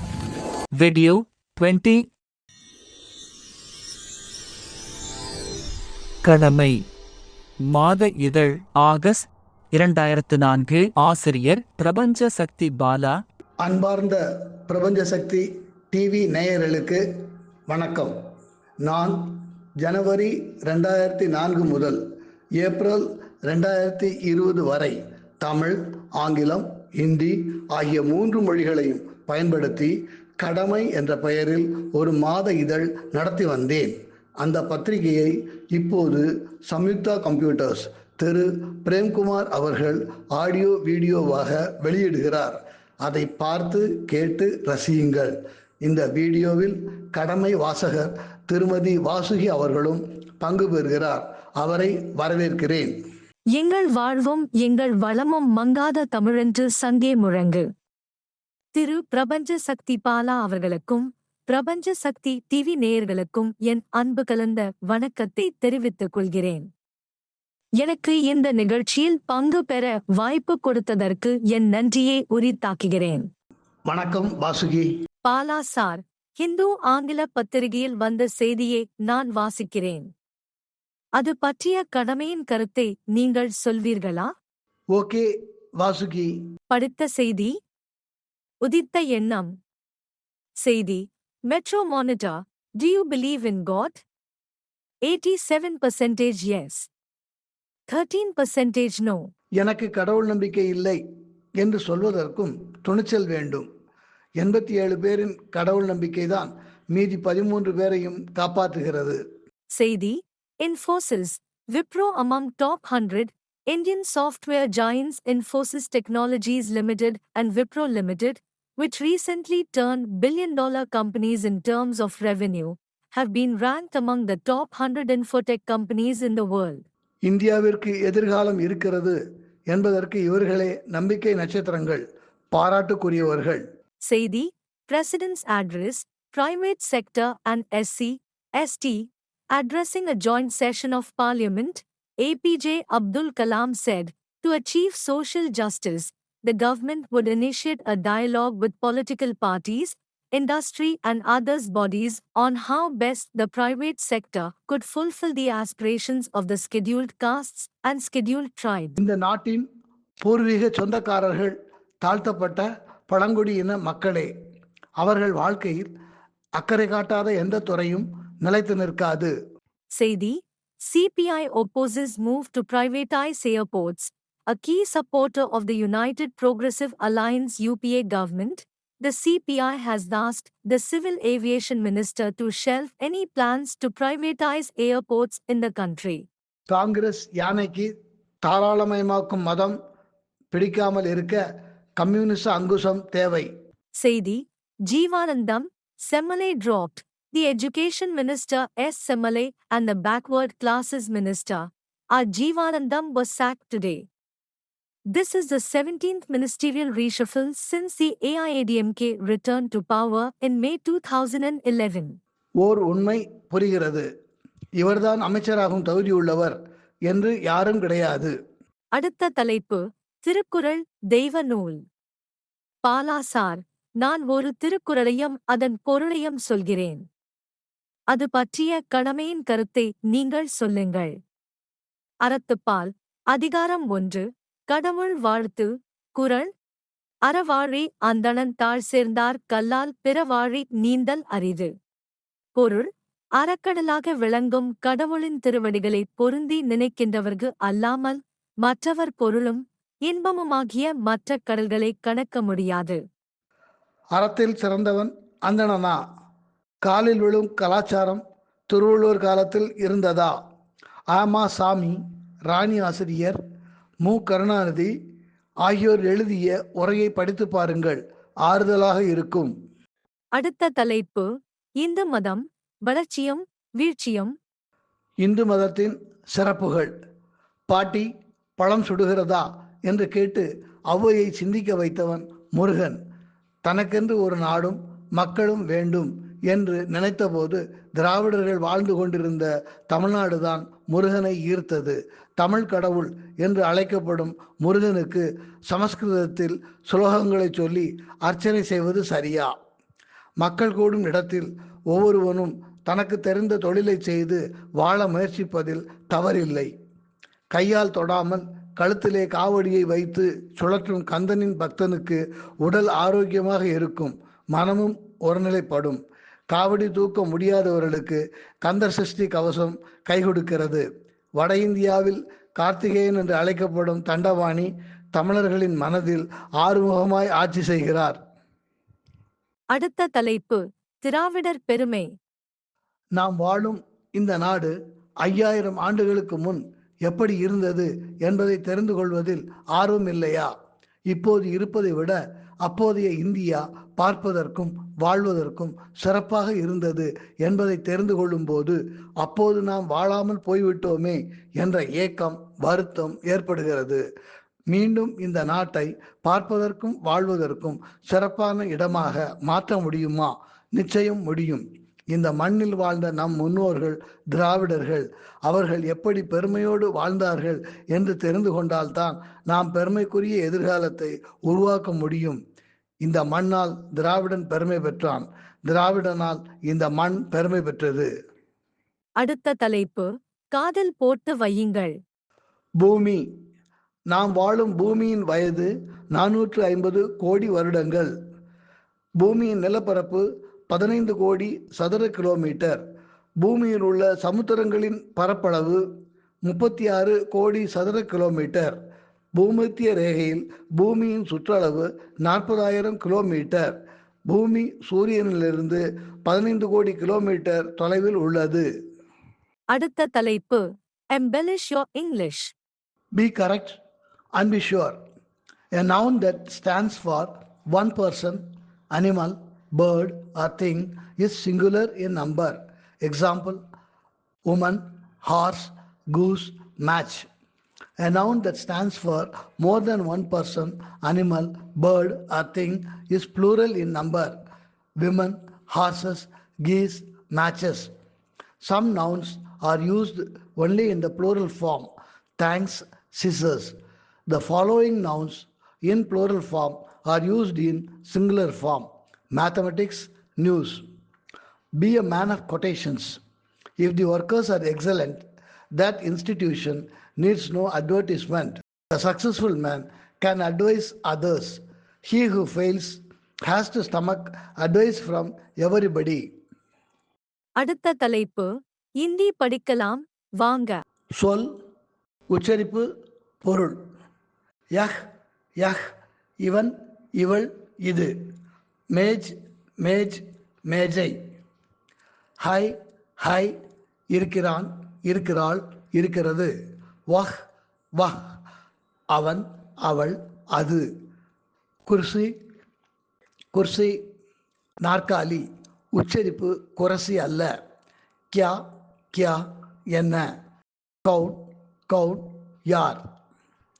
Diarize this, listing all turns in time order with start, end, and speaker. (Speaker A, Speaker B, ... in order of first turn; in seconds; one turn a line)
Speaker A: 0.7-2.1
Speaker A: 6.2-6.8
Speaker A: 7.7-13.1
Speaker B: 13.6-17.0
Speaker B: 17.7-18.1
Speaker B: 18.8-22.0
Speaker B: 22.6-53.0
Speaker C: 53.5-57.6
Speaker C: 58.7-66.7
Speaker C: 67.8-73.2
Speaker B: 73.9-74.9
Speaker C: 75.2-80.1
Speaker C: 81.2-84.3
Speaker B: 84.9-85.3
Speaker B: 85.8-86.5
Speaker C: 86.7-87.5
Speaker C: 88.6-89.5
Speaker C: 90.6-94.0
Speaker C: 95.0-96.9
Speaker C: 97.9-99.2
Speaker B: 99.6-101.0
Speaker B: 101.6-103.7
Speaker B: 104.4-109.2
Speaker C: 109.7-126.8
Speaker B: 127.2-129.2
Speaker B: 129.7-133.6
Speaker C: 134.1-159.0
Speaker B: 159.0-159.7
Speaker B: 160.2-164.3
Speaker B: 165.0-165.9
Speaker B: 166.6-169.3
Speaker C: 169.9-186.2
Speaker B: 186.7-187.9
Speaker B: 188.4-189.7
Speaker B: 190.5-191.4
Speaker B: 191.9-193.5
Speaker C: 194.0-204.0
Speaker C: 205.1-212.1
Speaker B: 212.6-214.1
Speaker B: 214.8-218.3
Speaker C: 218.9-221.8
Speaker C: 222.8-227.0
Speaker C: 228.1-231.1
Speaker C: 232.2-236.5
Speaker C: 237.2-241.7
Speaker C: 242.6-253.0
Speaker B: 254.2-256.0
Speaker B: 256.8-260.3
Speaker B: 261.1-263.4
Speaker B: 264.0-264.9
Speaker B: 265.6-269.5
Speaker C: 270.3-271.3
Speaker C: 271.8-274.3
Speaker B: 275.2-276.9
Speaker B: 277.7-278.1
Speaker B: 278.6-283.0
Speaker B: 283.6-299.5
Speaker B: 300.4-306.7
Speaker B: 307.5-316.0
Speaker B: 316.5-320.8
Speaker B: 321.4-328.2
Speaker C: 329.7-332.1
Speaker B: 333.1-340.5
Speaker B: 341.1-354.0
Speaker B: 354.7-372.4
Speaker B: 373.0-378.1
Speaker C: 379.2-381.9
Speaker B: 382.8-383.2
Speaker B: 384.1-388.1
Speaker B: 389.2-392.8
Speaker B: 393.4-395.8
Speaker B: 396.4-398.8
Speaker B: 399.3-403.8
Speaker B: 404.3-408.7
Speaker C: 409.7-412.5
Speaker B: 413.1-413.8
Speaker B: 414.4-414.9
Speaker B: 415.7-418.4
Speaker B: 418.9-423.6
Speaker B: 424.5-427.3
Speaker B: 428.0-434.3
Speaker B: 435.0-437.9
Speaker B: 438.6-443.8
Speaker B: 444.3-450.8
Speaker B: 451.8-453.2
Speaker B: 453.8-455.2
Speaker B: 455.8-466.2
Speaker C: 467.6-470.8
Speaker B: 471.1-471.5
Speaker B: 472.3-472.9
Speaker B: 473.4-473.8
Speaker B: 476.4-478.1
Speaker B: 478.9-481.2
Speaker B: 482.4-483.5
Speaker B: 484.1-486.5
Speaker B: 489.1-490.8
Speaker B: 491.9-492.3
Speaker B: 493.5-494.0
Speaker B: 494.8-497.5
Speaker B: 498.3-498.6
Speaker B: 499.1-500.3
Speaker B: 501.0-503.0